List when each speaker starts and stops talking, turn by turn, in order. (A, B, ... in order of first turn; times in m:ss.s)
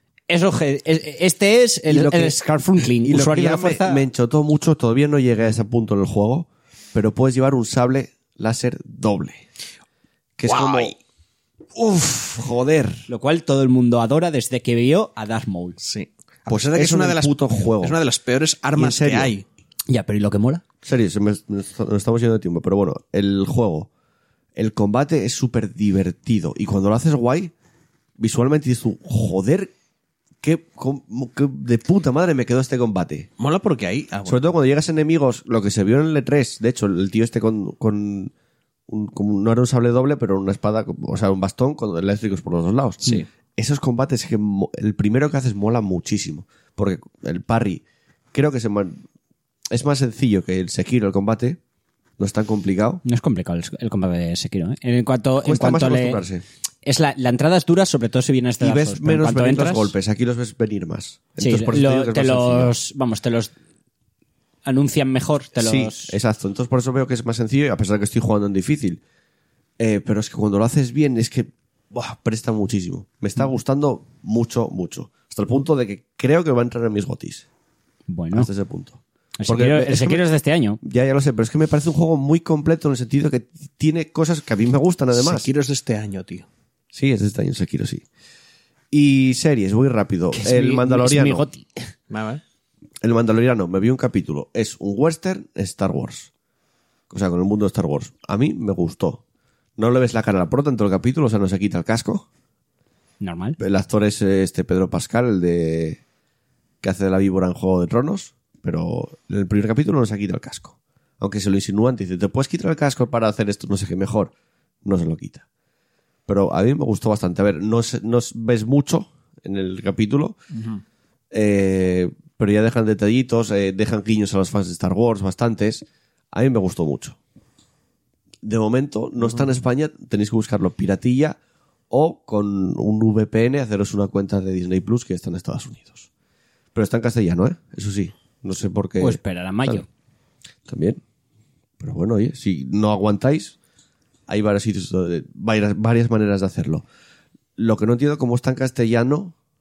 0:00.3-0:04.0 A
0:01.9-0:02.3 B
0:03.0-0:09.4 B
0:10.4-0:11.0 B
0:10.4-0:10.9 C
0:11.7-0:13.1 B
0:13.1-0:15.8 A
0:15.8-0:19.4 C
0:16.5-0:18.0 B
0:18.8-0:19.3 B
0:19.9-0:20.6 A
0:20.8-0:23.9 B
0:24.6-0:27.5 B
0:28.2-0:29.7 B
0:30.4-0:33.3 B
0:33.4-0:34.4 C
0:34.2-0:38.3 B
0:38.9-0:49.0 B
0:49.7-0:51.6 B
0:52.2-0:53.0 B
0:53.0-0:56.2 A
0:55.4-0:56.4 B
0:56.8-0:59.9 A
0:58.6-1:02.7 B
1:01.4-1:03.5 A
1:04.6-1:06.1 A
1:05.6-1:09.0 B
1:09.8-1:17.4 B
1:18.1-1:18.5 A
1:18.3-1:20.2 B
1:19.4-1:20.8 A
1:20.8-1:25.5 B
1:25.1-1:26.4 C
1:26.9-1:28.0 B
1:28.9-1:31.4 B
1:30.3-1:31.9 A
1:32.1-1:32.4 C
1:33.0-1:36.3 B
1:37.1-1:39.2 B
1:39.8-1:42.3 B
1:43.2-1:43.6 A
1:43.6-1:46.0 B
1:46.8-1:54.3 B
1:54.8-1:55.4 B
1:56.3-2:00.4 B
2:00.6-2:00.8 C
2:01.3-2:07.2 B
2:08.4-2:11.4 B
2:11.9-2:16.1 B
2:16.7-2:19.8 B
2:19.0-2:19.8 A
2:20.7-2:21.0 B
2:21.8-2:23.5 B
2:24.3-2:26.8 B
2:27.6-2:29.3 B